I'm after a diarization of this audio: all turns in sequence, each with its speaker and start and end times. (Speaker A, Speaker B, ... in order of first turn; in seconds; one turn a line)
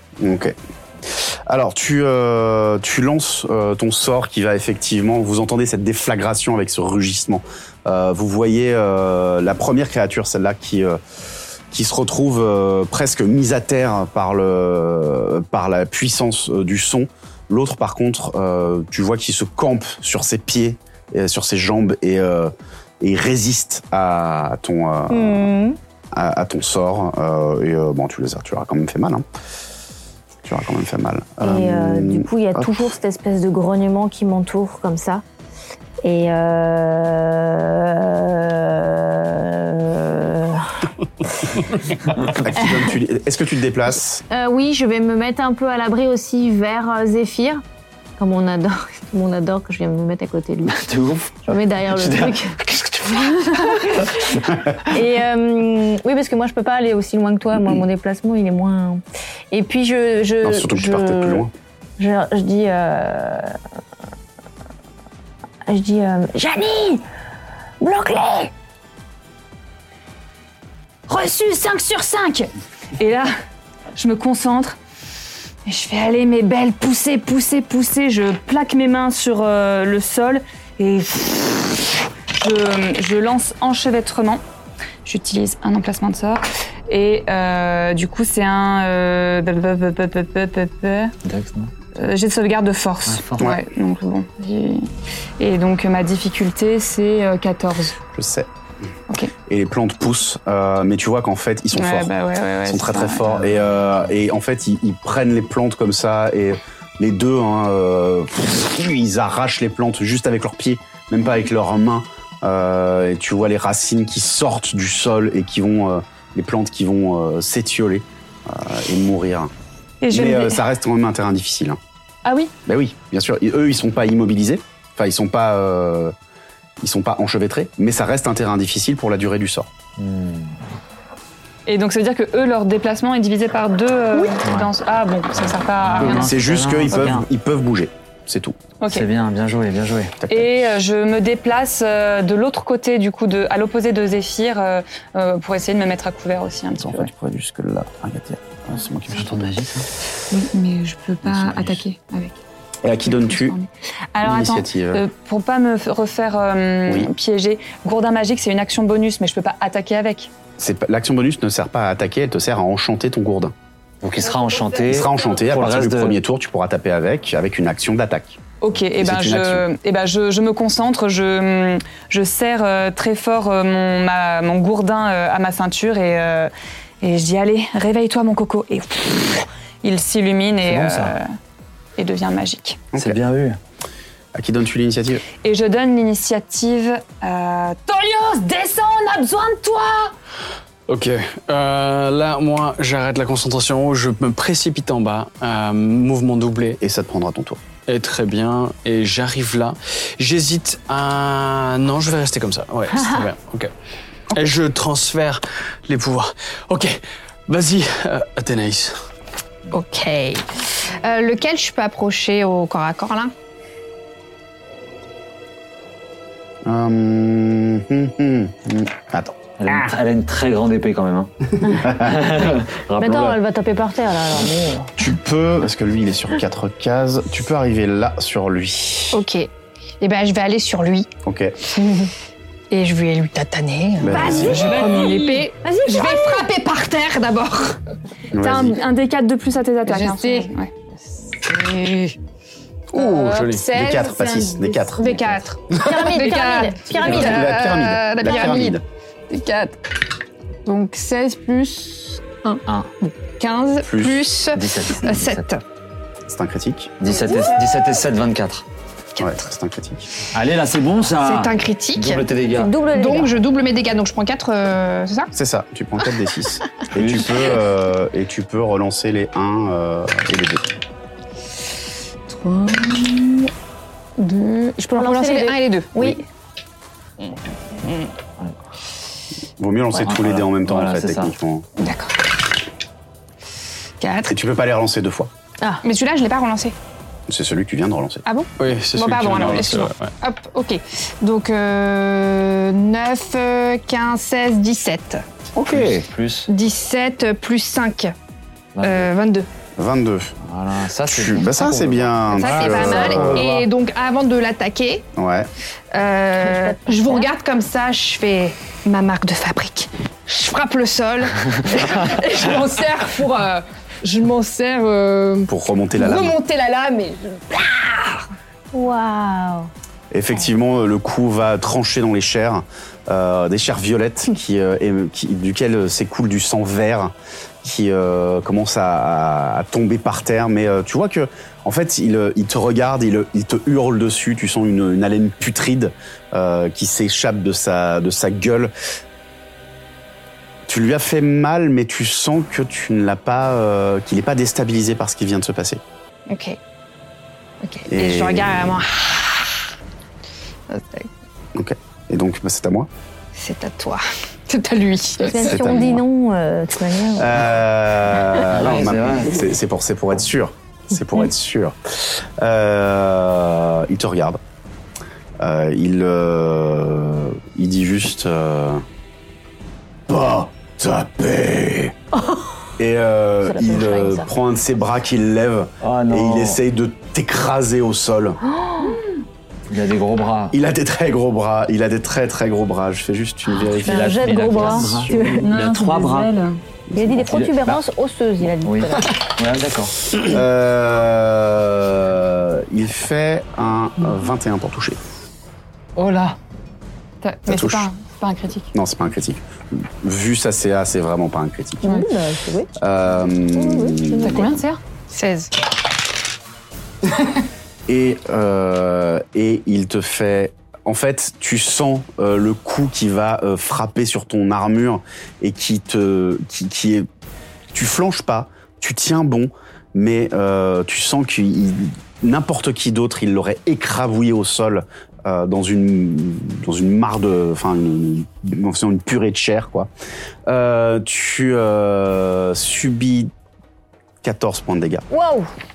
Speaker A: 0.2-0.6
Speaker A: 1.1-11.0
Speaker A: 11.7-25.5
Speaker B: 25.1-25.8
Speaker A: 26.1-29.2
Speaker A: 30.4-32.9
Speaker B: 31.4-35.2
Speaker B: 36.0-40.9
Speaker A: 42.3-44.2
Speaker B: 42.6-42.9
Speaker B: 44.3-47.6
Speaker B: 48.2-50.8
Speaker C: 50.7-53.8
Speaker B: 51.5-52.6
Speaker B: 53.2-61.5
Speaker A: 60.4-61.5
Speaker B: 62.0-63.6
Speaker B: 65.7-67.0
Speaker B: 67.8-68.5
Speaker D: 71.1-73.3
Speaker D: 74.0-74.8
Speaker D: 75.7-84.4
Speaker D: 85.0-91.1
Speaker C: 91.2-91.7
Speaker D: 92.0-94.9
Speaker C: 93.1-93.5
Speaker D: 95.4-97.9
Speaker A: 98.1-98.5
Speaker A: 99.5-102.1
Speaker D: 101.7-103.3
Speaker A: 102.7-119.5
Speaker D: 120.0-120.6
Speaker A: 120.1-121.8
Speaker D: 122.2-122.5
Speaker A: 122.7-126.1
Speaker A: 126.8-129.7
Speaker C: 130.0-130.6
Speaker D: 131.7-136.3
Speaker C: 134.4-134.7
Speaker C: 135.8-137.3
Speaker A: 136.0-138.6
Speaker D: 138.8-139.1
Speaker C: 138.9-140.2
Speaker A: 140.2-140.5
Speaker D: 140.3-147.1
Speaker A: 146.8-149.3
Speaker C: 149.1-149.9
Speaker D: 150.3-152.4
Speaker C: 151.2-151.8
Speaker A: 152.8-153.6
Speaker D: 153.1-160.3
Speaker A: 154.2-155.0
Speaker A: 160.6-163.5
Speaker C: 164.0-166.2
Speaker A: 164.8-168.4
Speaker D: 168.6-181.3
Speaker A: 169.0-169.7
Speaker C: 180.6-181.2
Speaker D: 182.0-182.8
Speaker A: 182.9-183.2
Speaker C: 183.0-183.6
Speaker A: 184.3-185.2
Speaker D: 185.4-190.1
Speaker E: 190.9-196.8
Speaker A: 196.8-197.6
Speaker E: 197.9-203.7
Speaker E: 204.3-209.0
Speaker F: 209.7-213.3
Speaker A: 216.6-219.4
Speaker C: 219.6-223.4
Speaker B: 221.6-222.0
Speaker B: 223.0-224.9
Speaker A: 225.0-229.2
Speaker F: 229.1-229.5
Speaker F: 230.0-231.1
Speaker A: 231.2-231.5
Speaker F: 232.7-237.8
Speaker A: 234.0-234.7
Speaker D: 234.4-235.4
Speaker B: 234.7-235.0
Speaker B: 235.6-236.4
Speaker A: 238.3-238.8
Speaker D: 238.4-240.8
Speaker F: 239.8-240.5
Speaker F: 241.4-242.2
Speaker E: 242.9-243.7
Speaker F: 242.9-249.8
Speaker A: 243.7-245.2
Speaker B: 245.8-247.5
Speaker A: 246.9-248.8
Speaker F: 250.7-255.6
Speaker A: 253.8-254.3
Speaker C: 254.5-255.4
Speaker A: 256.3-256.9
Speaker C: 257.0-258.6
Speaker A: 259.2-260.1
Speaker C: 260.3-262.7
Speaker F: 261.2-262.3
Speaker B: 262.5-263.3
Speaker F: 262.9-265.3
Speaker A: 265.3-270.7
Speaker C: 266.9-267.3
Speaker F: 272.3-273.5
Speaker F: 274.2-276.2
Speaker B: 274.9-276.1
Speaker F: 277.3-278.1
Speaker A: 279.6-281.7
Speaker C: 280.0-281.3
Speaker F: 281.8-282.1
Speaker F: 284.0-284.4
Speaker A: 284.3-285.3
Speaker F: 285.8-286.7
Speaker A: 287.3-288.2
Speaker F: 288.2-295.2
Speaker E: 288.6-290.1
Speaker C: 295.6-296.5
Speaker A: 295.7-296.0
Speaker F: 296.5-298.1
Speaker C: 298.8-299.1
Speaker F: 298.8-299.5
Speaker A: 299.8-300.3
Speaker C: 300.4-303.6
Speaker A: 301.1-303.5
Speaker F: 302.3-305.0
Speaker A: 305.1-305.5
Speaker F: 305.9-318.2
Speaker B: 306.4-307.3
Speaker A: 315.5-316.4
Speaker B: 318.7-319.7
Speaker A: 320.1-338.7
Speaker A: 340.7-345.8
Speaker F: 346.3-346.6
Speaker F: 347.6-349.4
Speaker A: 347.9-348.8
Speaker F: 350.7-351.1
Speaker A: 351.5-352.9
Speaker F: 353.4-355.6
Speaker B: 355.2-357.5
Speaker A: 355.4-356.0
Speaker A: 357.2-364.4
Speaker C: 358.5-359.5
Speaker A: 365.4-368.8
Speaker A: 370.1-371.9
Speaker A: 372.8-378.4
Speaker B: 373.4-374.3
Speaker C: 375.8-376.6
Speaker B: 378.4-379.0
Speaker C: 379.7-380.6
Speaker A: 380.5-385.3
Speaker B: 383.6-385.5
Speaker C: 383.7-386.3
Speaker D: 385.4-386.6
Speaker A: 386.9-387.8
Speaker B: 386.9-389.2
Speaker C: 388.6-390.2
Speaker A: 390.1-395.0
Speaker C: 396.0-396.4
Speaker D: 397.2-398.7
Speaker A: 397.5-397.9
Speaker A: 398.7-401.9
Speaker B: 401.8-402.7
Speaker A: 402.8-404.6
Speaker B: 403.5-404.3
Speaker D: 404.2-404.8
Speaker F: 405.1-405.5
Speaker A: 407.9-417.1
Speaker A: 417.7-429.9
Speaker A: 430.4-433.3
Speaker A: 434.2-435.1
Speaker B: 435.1-435.5